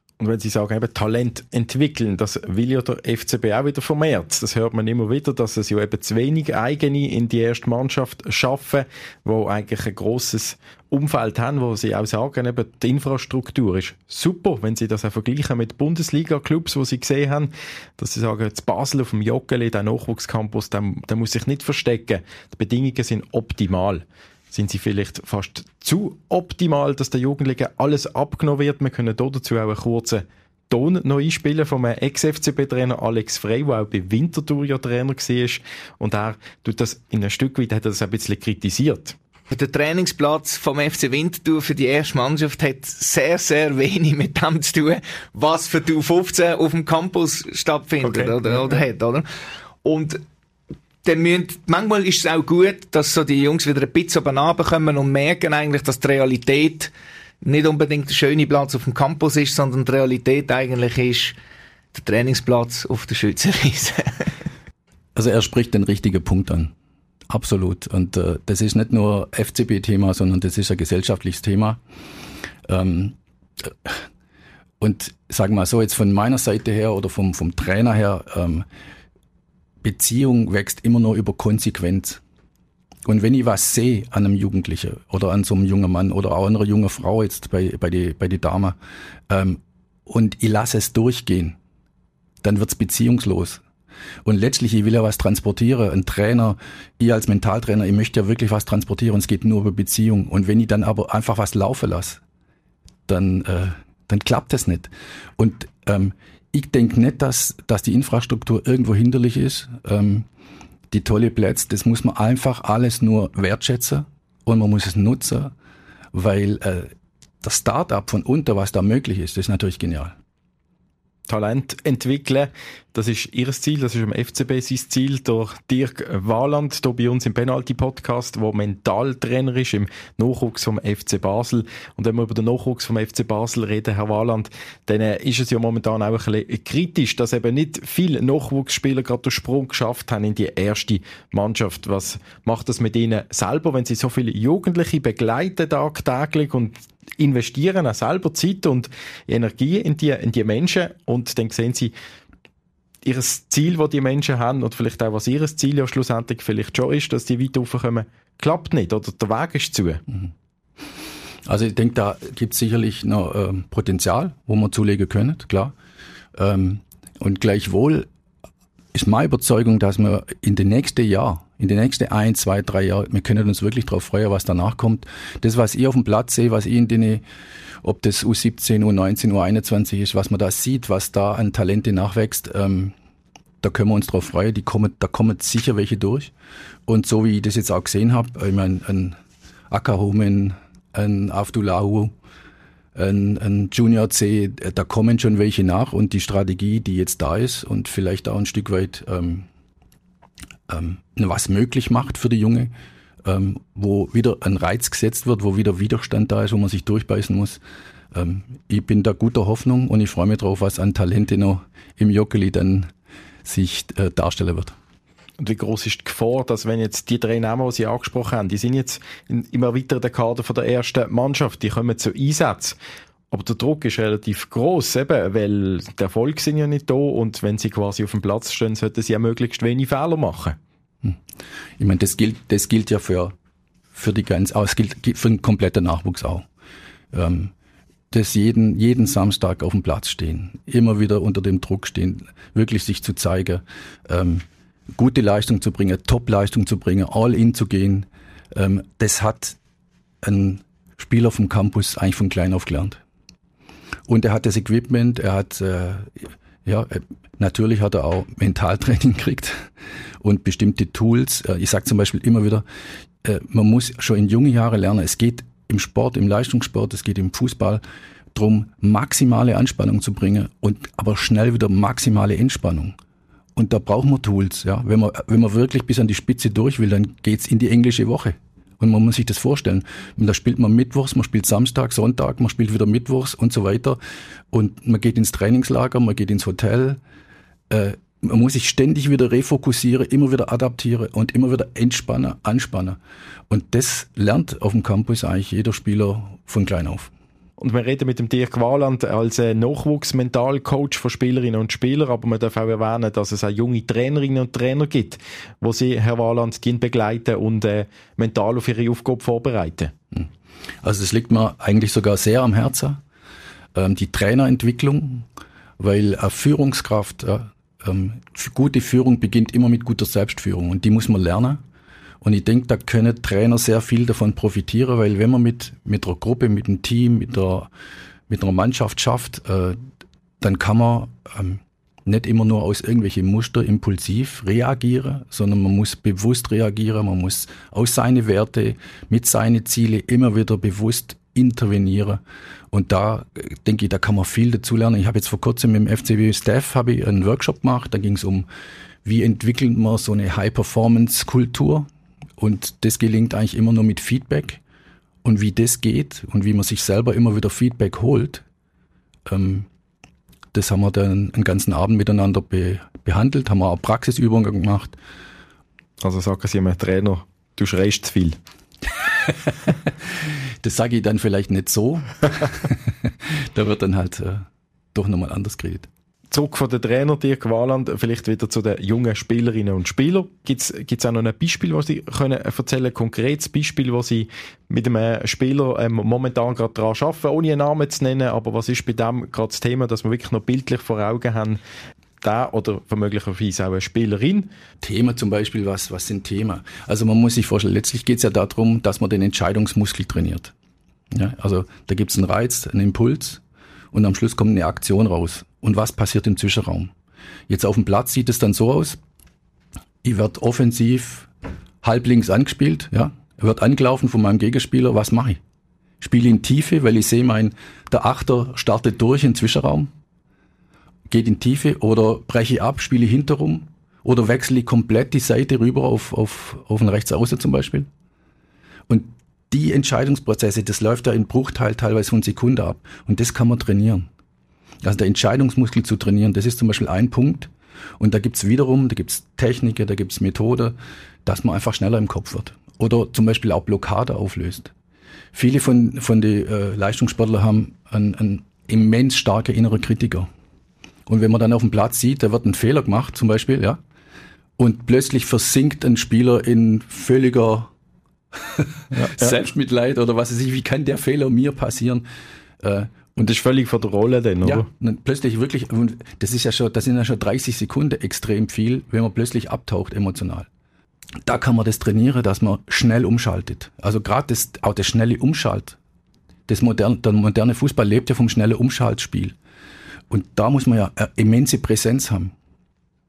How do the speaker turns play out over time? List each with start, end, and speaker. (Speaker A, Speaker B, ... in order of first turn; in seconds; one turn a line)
Speaker A: 0.2-39.1
Speaker B: 39.5-49.2
Speaker A: 48.0-48.7
Speaker B: 49.8-50.2
Speaker B: 51.0-56.9
Speaker B: 57.4-61.3
Speaker B: 61.9-64.3
Speaker C: 65.1-66.7
Speaker C: 67.3-71.8
Speaker C: 72.7-74.0
Speaker C: 74.8-78.7
Speaker C: 79.8-82.2
Speaker C: 83.0-88.8
Speaker C: 89.3-91.6
Speaker C: 92.4-93.6
Speaker C: 94.2-102.2
Speaker C: 103.1-110.3
Speaker C: 110.9-115.5
Speaker C: 116.1-120.1
Speaker A: 121.3-151.9
Speaker A: 153.0-160.0
Speaker C: 161.4-165.7
Speaker C: 166.3-168.1
Speaker C: 168.9-177.2
Speaker C: 177.8-182.9
Speaker C: 183.6-186.3
Speaker C: 186.9-189.2
Speaker C: 189.7-192.1
Speaker C: 192.9-199.5
Speaker C: 200.7-202.7
Speaker C: 203.2-207.6
Speaker C: 208.1-212.9
Speaker C: 213.4-214.7
Speaker A: 215.4-222.8
Speaker A: 223.3-230.6
Speaker C: 231.8-233.3
Speaker C: 233.9-236.4
Speaker C: 237.1-237.5
Speaker C: 238.1-249.6
Speaker C: 250.2-253.0
Speaker C: 254.1-259.7
Speaker C: 260.2-262.6
Speaker C: 263.2-267.8
Speaker C: 268.3-272.9
Speaker C: 273.5-284.0
Speaker C: 284.5-287.0
Speaker C: 287.7-293.0
Speaker C: 293.5-297.1
Speaker A: 297.6-309.9
Speaker C: 310.8-313.0
Speaker C: 313.7-315.3
Speaker C: 315.8-321.6
Speaker C: 322.2-327.7
Speaker C: 328.3-329.8
Speaker C: 330.4-342.2
Speaker C: 342.7-348.4
Speaker C: 349.0-354.6
Speaker C: 355.2-358.4
Speaker C: 359.2-359.7
Speaker C: 360.5-364.9
Speaker A: 366.0-368.4
Speaker C: 369.3-375.9
Speaker A: 376.3-391.6
Speaker A: 392.2-394.5
Speaker C: 394.8-400.5
Speaker C: 401.1-406.9
Speaker C: 407.5-409.0
Speaker C: 410.0-411.3
Speaker C: 411.8-415.4
Speaker C: 416.0-419.9
Speaker C: 421.1-427.9
Speaker C: 428.9-434.1
Speaker C: 434.8-444.7
Speaker C: 445.3-450.3
Speaker C: 451.1-453.8
Speaker C: 454.6-457.7
Speaker C: 458.4-462.0
Speaker A: 458.9-459.3
Speaker C: 462.6-463.4
Speaker A: 463.2-464.6
Speaker C: 464.4-470.5
Speaker C: 471.2-475.8
Speaker C: 476.5-479.4
Speaker C: 480.1-482.3